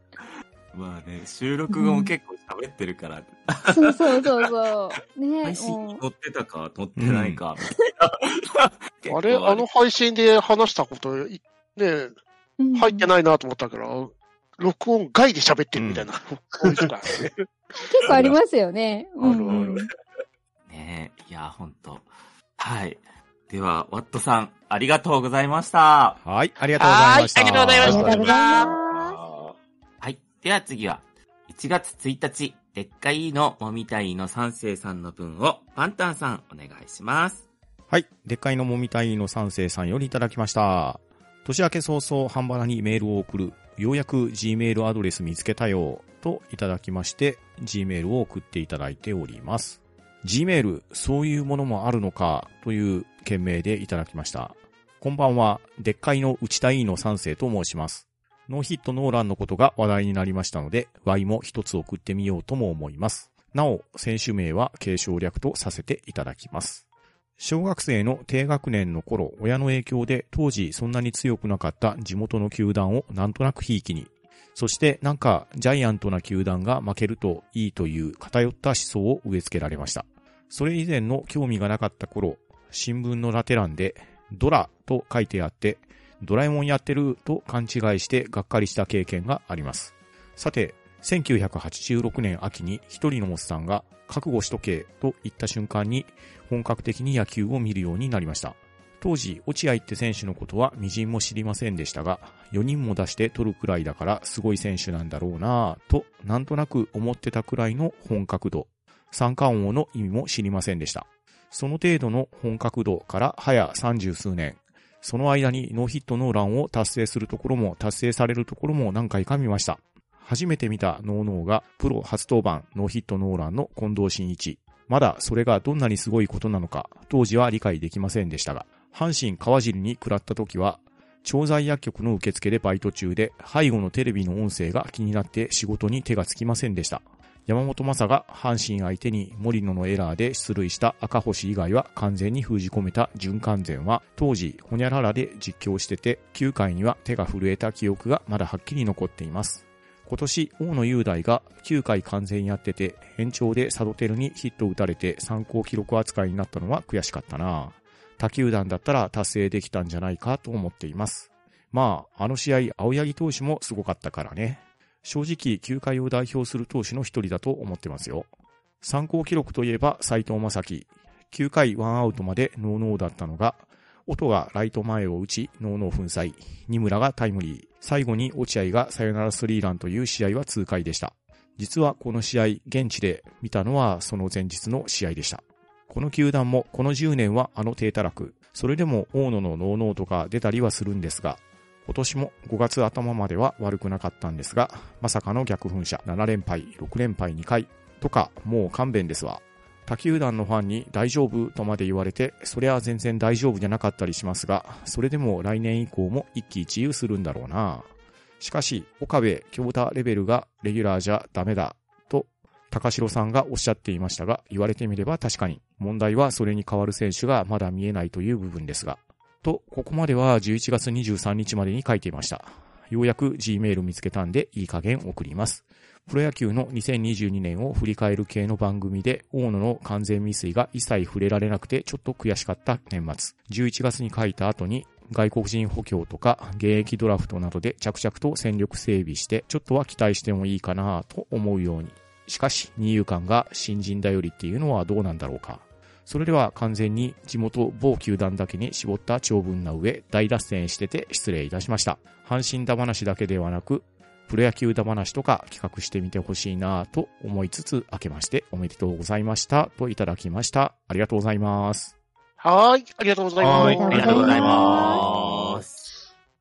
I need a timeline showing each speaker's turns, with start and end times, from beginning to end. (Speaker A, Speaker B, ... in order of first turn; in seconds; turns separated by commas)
Speaker A: 0.7-4.5, Speaker B: 1.7-2.1, Speaker B: 3.7-6.0, Speaker A: 5.4-9.7, Speaker C: 7.0-7.4, Speaker D: 9.1-12.1, Speaker B: 12.6-13.1, Speaker D: 12.8-17.4, Speaker C: 15.8-16.1, Speaker B: 17.8-19.9, Speaker E: 18.1-18.4, Speaker D: 19.2-19.8, Speaker A: 19.5-19.8, Speaker A: 20.7-26.2, Speaker C: 26.2-28.2, Speaker D: 26.8-28.7, Speaker E: 27.8-29.6, Speaker B: 27.8-29.2, Speaker A: 30.0-37.5, Speaker C: 37.9-66.8, Speaker C: 67.4-168.3, Speaker C: 168.8-207.9, Speaker C: 208.4-261.9, Speaker D: 262.4-264.8, Speaker E: 263.4-266.0, Speaker B: 263.5-265.0, Speaker A: 263.7-265.9